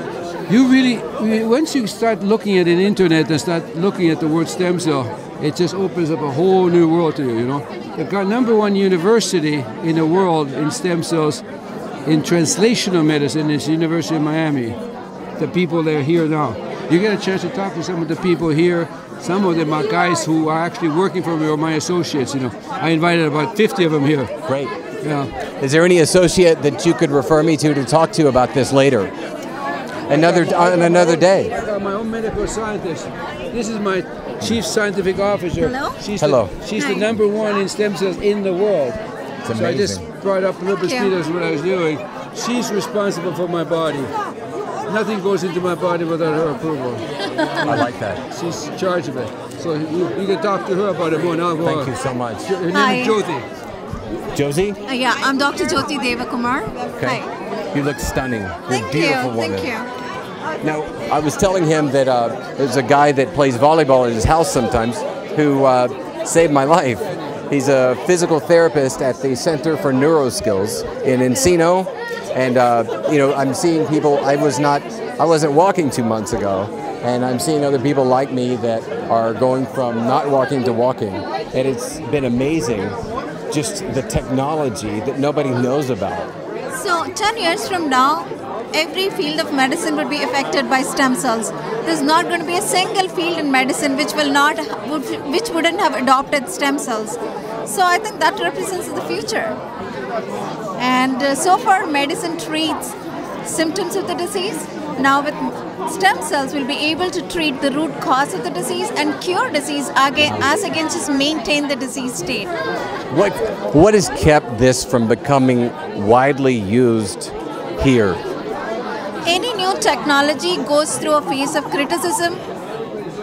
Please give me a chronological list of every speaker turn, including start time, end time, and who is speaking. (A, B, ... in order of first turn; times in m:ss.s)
0:00.5-0:11.4 A
0:12.1-0:14.8 A
0:15.4-0:24.3 A
0:24.5-0:24.7 B
0:25.0-0:25.3 A
0:25.6-0:29.1 B
0:30.1-0:31.5 B
0:30.1-0:39.0 A
0:35.6-0:36.0 C
0:36.2-0:36.6 B
0:36.7-0:37.1 C
0:39.4-0:40.0 B
0:39.5-0:44.1 A
0:40.8-0:41.1 C
0:44.9-0:47.1 A
0:47.6-0:48.2 B
0:48.3-0:51.9 A
0:51.6-0:52.5 B
0:52.4-0:53.5 A
0:52.7-0:53.2 C
0:54.3-0:54.8 B
0:54.9-0:57.3 C
0:57.0-0:57.2 B
0:57.7-0:59.7 B
0:58.7-0:59.9 C
1:00.6-1:22.9 B
1:23.5-1:26.3 B
1:26.7-1:39.6 C
1:40.8-1:52.5 C
1:50.2-1:50.5 B
1:53.1-1:58.2 B
1:59.3-2:02.4 C